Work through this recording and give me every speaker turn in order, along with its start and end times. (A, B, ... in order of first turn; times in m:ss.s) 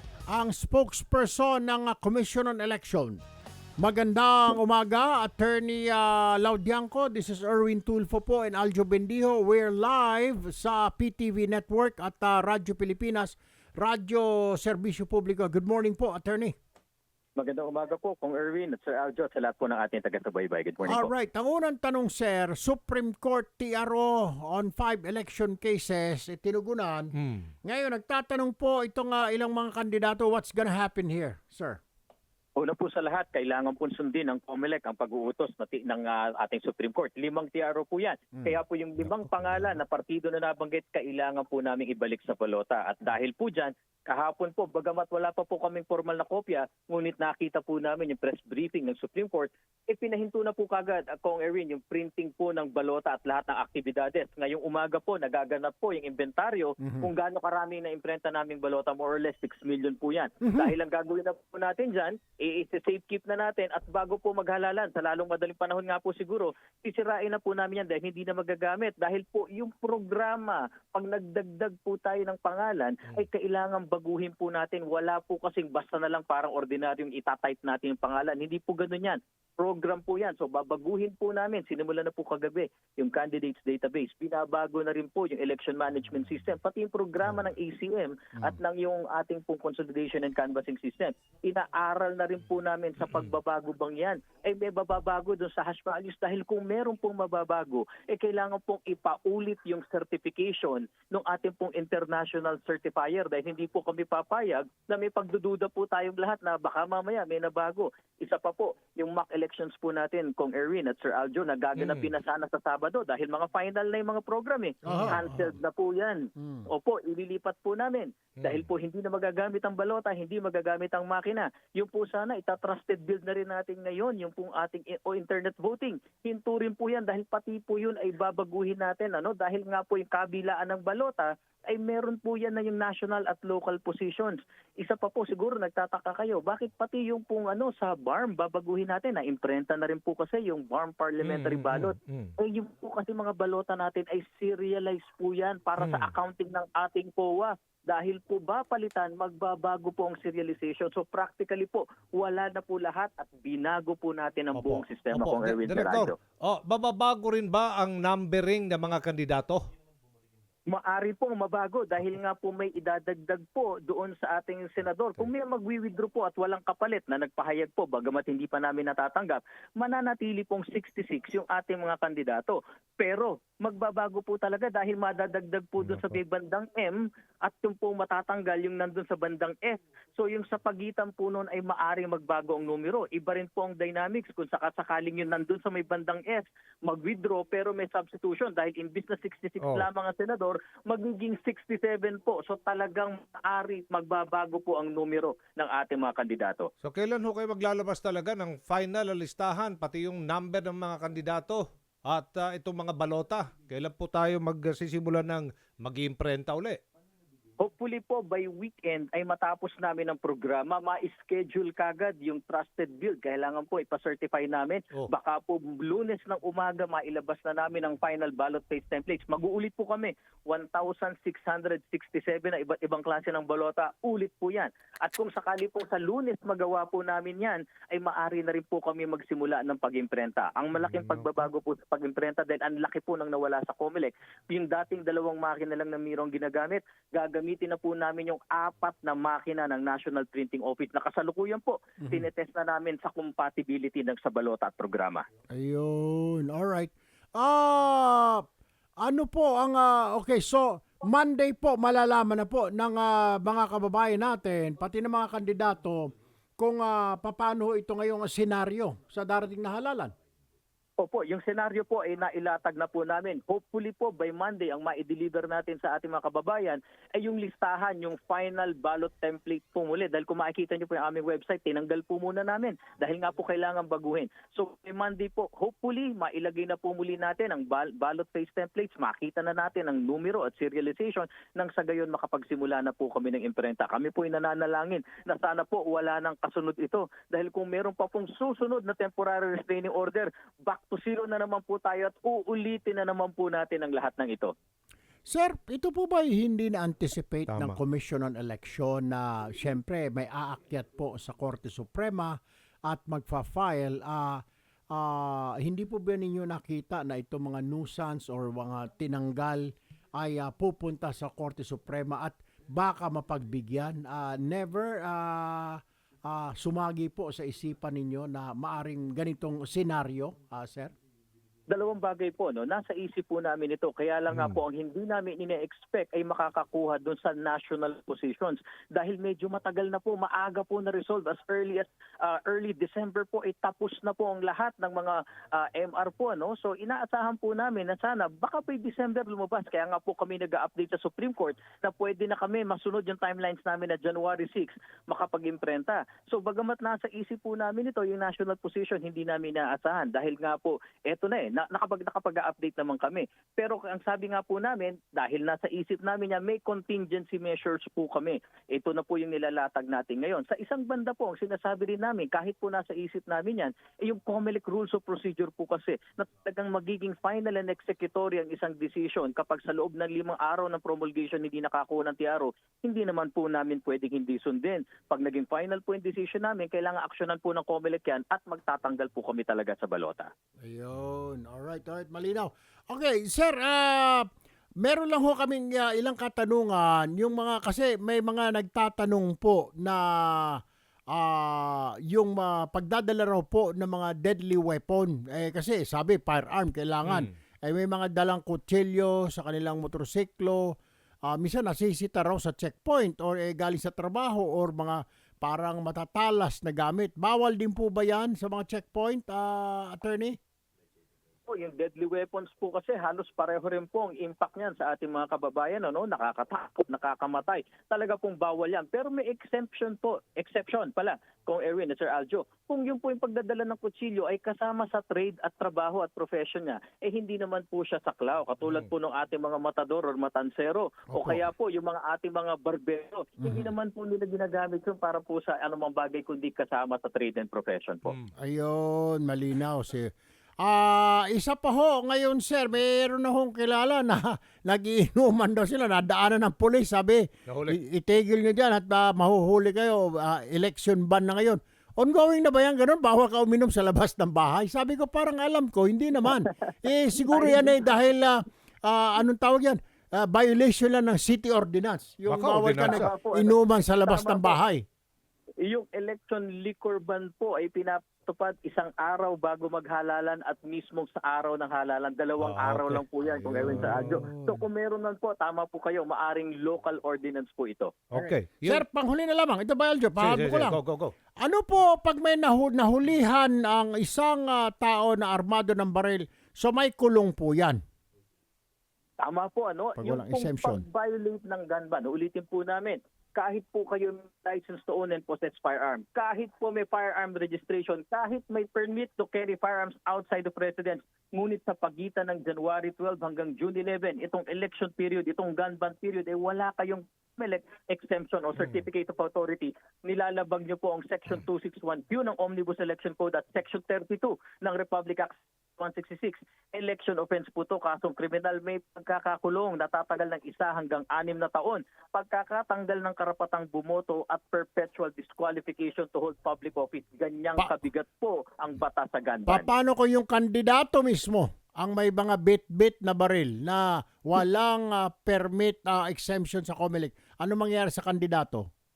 0:00.3-0:03.2 A
0:03.8-0:16.6 A
0:17.4-0:21.1 B
0:20.8-0:27.1 A
0:27.2-0:27.5 C
0:27.6-0:31.8 A
0:32.6-2:36.2 B
0:56.8-0:57.1 A
1:00.4-1:00.7 A
1:51.8-1:52.1 C
1:54.8-1:55.5 A
1:56.4-1:56.7 A
1:58.4-1:58.7 C
2:21.2-2:22.3 C
2:25.8-2:26.1 C
2:34.6-2:39.6 C
2:40.7-3:16.7 B
2:55.8-2:56.2 C
3:09.6-3:09.9 C
3:16.8-3:26.8 C
3:27.6-4:05.2 B
3:50.8-3:51.2 C
4:02.0-4:02.3 A
4:05.5-4:08.5 A
4:09.0-4:20.1 A
4:21.0-4:54.5 B
4:55.3-5:20.9 A
4:57.5-4:57.8 C
5:21.7-6:20.3 B
5:24.3-5:24.6 C
6:20.6-6:24.3 A
6:24.8-6:30.6 A
6:31.1-6:40.8 A
6:41.3-6:50.4 A
6:51.5-7:18.1 B
7:08.6-7:08.9 C
7:11.1-7:11.4 A
7:13.4-7:13.7 A
7:18.1-7:18.3 C
7:18.4-7:44.8 A
7:27.5-7:27.8 C
7:37.3-7:37.8 B
7:42.3-7:43.1 C
7:42.8-7:44.6 B
7:45.7-7:58.0 B
7:52.4-7:54.4 C
7:53.6-7:54.6 A
7:58.1-7:58.8 C
7:58.2-8:00.8 A
8:00.2-8:01.1 C
8:01.4-8:07.8 A
8:09.2-8:49.7 B
8:10.0-8:10.8 A
8:49.5-8:58.7 A